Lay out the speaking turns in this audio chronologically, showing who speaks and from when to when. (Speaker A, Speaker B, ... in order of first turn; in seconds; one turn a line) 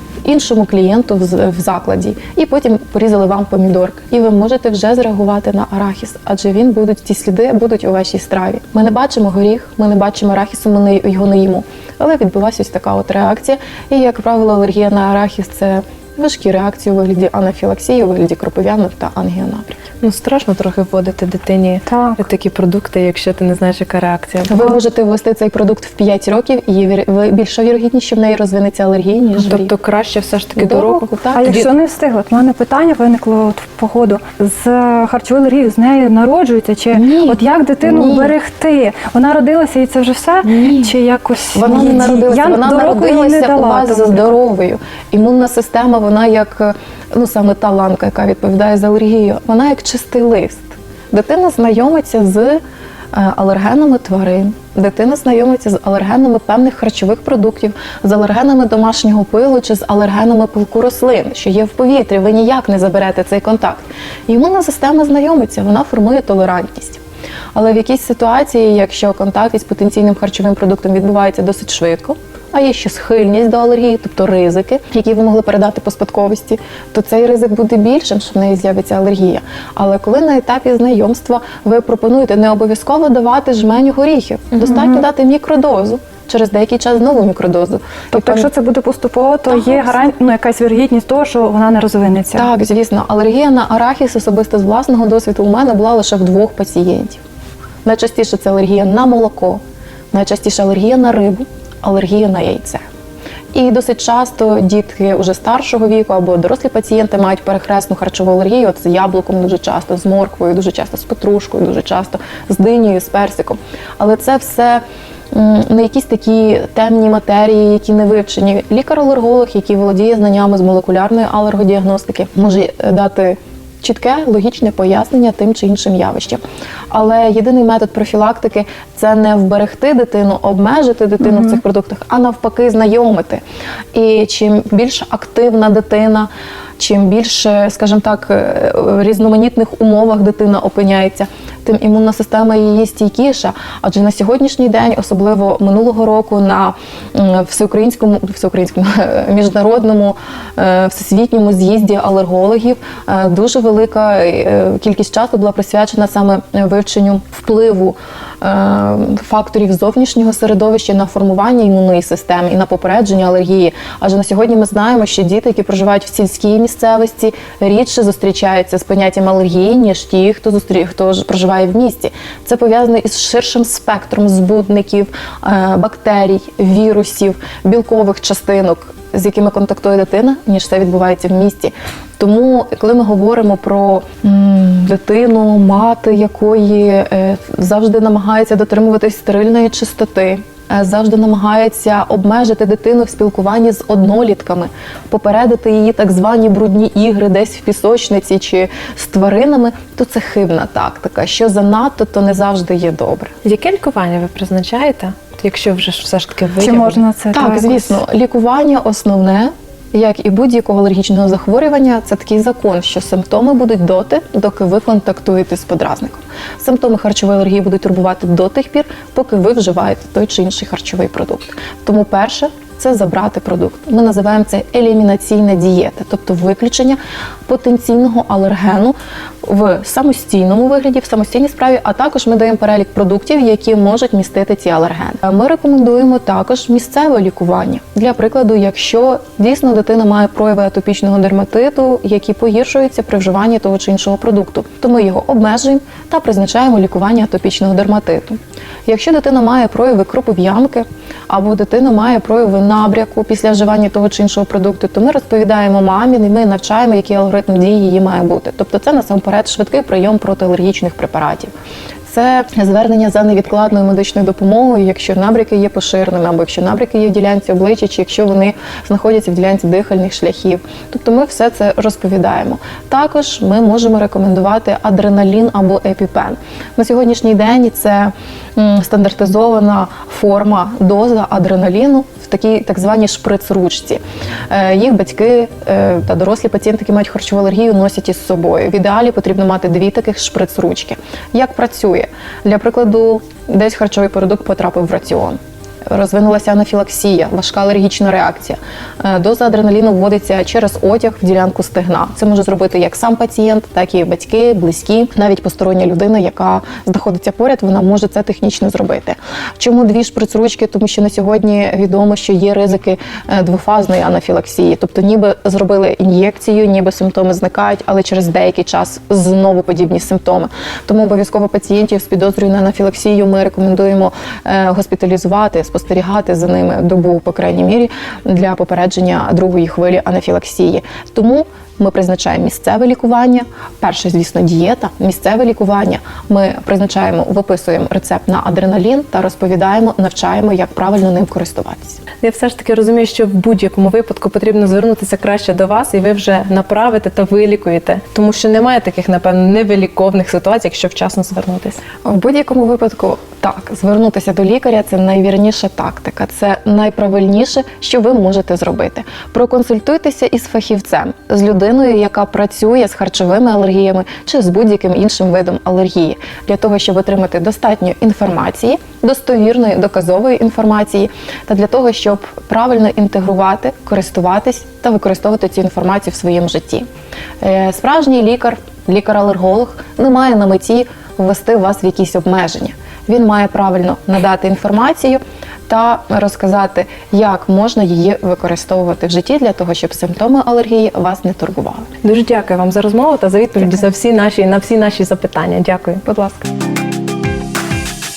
Speaker A: 0.2-19.9
Speaker B: 20.0-24.8
Speaker C: 21.9-22.2
Speaker A: 24.5-29.7
Speaker B: 29.4-31.7
Speaker A: 30.6-31.4
Speaker C: 31.3-44.4
Speaker A: 36.9-38.3
Speaker A: 40.5-40.9
Speaker A: 41.5-52.6
Speaker A: 53.1-67.0
Speaker A: 67.5-88.5
Speaker C: 84.7-84.9
Speaker C: 88.1-92.5
Speaker A: 89.5-90.0
Speaker A: 92.3-97.2
Speaker A: 97.8-102.8
Speaker A: 103.5-133.4
Speaker A: 133.9-203.3
Speaker B: 203.4-207.0
Speaker C: 206.6-208.0
Speaker A: 207.3-261.5
Speaker A: 262.1-295.4
Speaker A: 295.9-342.0
Speaker B: 342.2-351.8
Speaker A: 352.0-376.9
Speaker A: 377.4-391.9
Speaker B: 392.0-396.0
Speaker A: 396.0-396.4